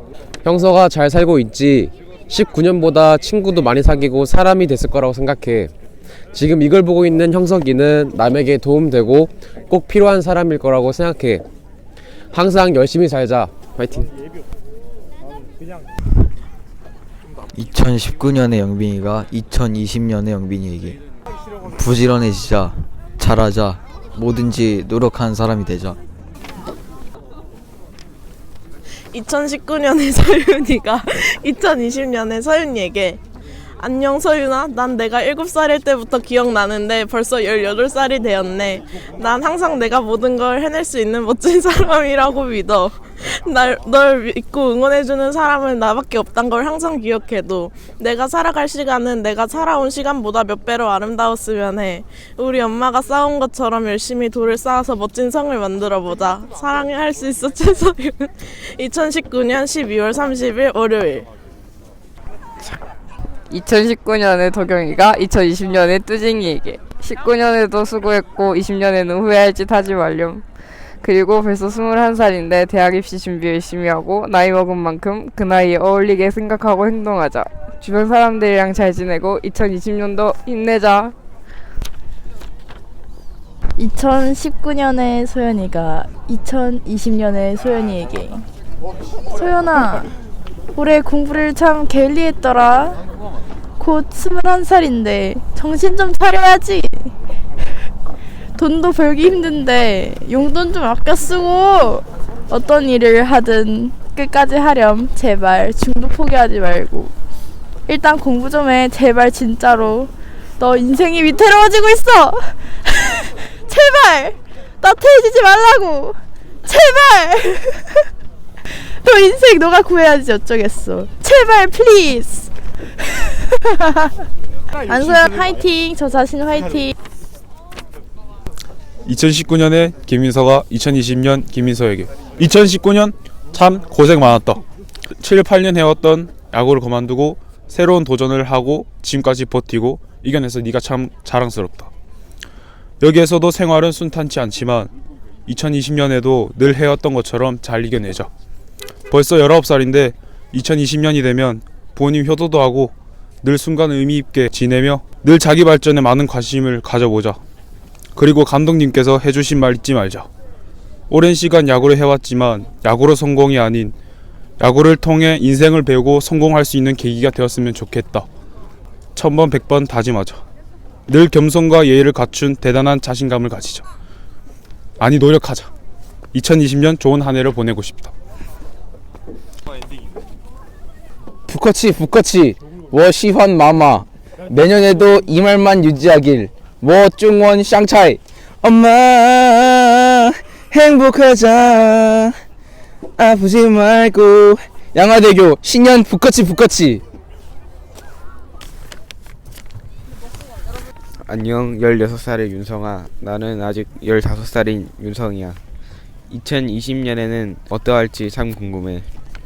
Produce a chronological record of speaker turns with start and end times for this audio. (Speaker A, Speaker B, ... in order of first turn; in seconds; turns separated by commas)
Speaker A: 0.4-5.7, Speaker A: 6.3-11.5, Speaker A: 12.3-14.1, Speaker B: 17.5-21.0, Speaker B: 21.7-26.0, Speaker C: 29.1-33.2, Speaker C: 33.8-61.3, Speaker D: 63.5-70.5, Speaker D: 71.0-81.2, Speaker E: 83.8-88.5, Speaker E: 89.3-90.1, Speaker E: 90.7-93.0, Speaker E: 93.8-97.1, Speaker E: 98.6-107.1, Speaker E: 107.9-118.1, Speaker E: 118.7-122.5, Speaker E: 123.5-124.1, Speaker E: 124.8-127.0, Speaker F: 129.1-134.6, Speaker F: 135.2-141.9, Speaker F: 143.0-144.9, Speaker F: 145.5-148.3, Speaker F: 149.1-157.4, Speaker F: 158.2-160.3, Speaker F: 161.1-163.9, Speaker F: 164.6-168.3, Speaker F: 169.2-170.4, Speaker F: 171.1-173.8, Speaker F: 175.0-175.7, Speaker F: 176.3-178.1, Speaker G: 181.5-192.3, Speaker G: 193.2-197.0, Speaker H: 201.3-205.6, Speaker H: 206.3-209.1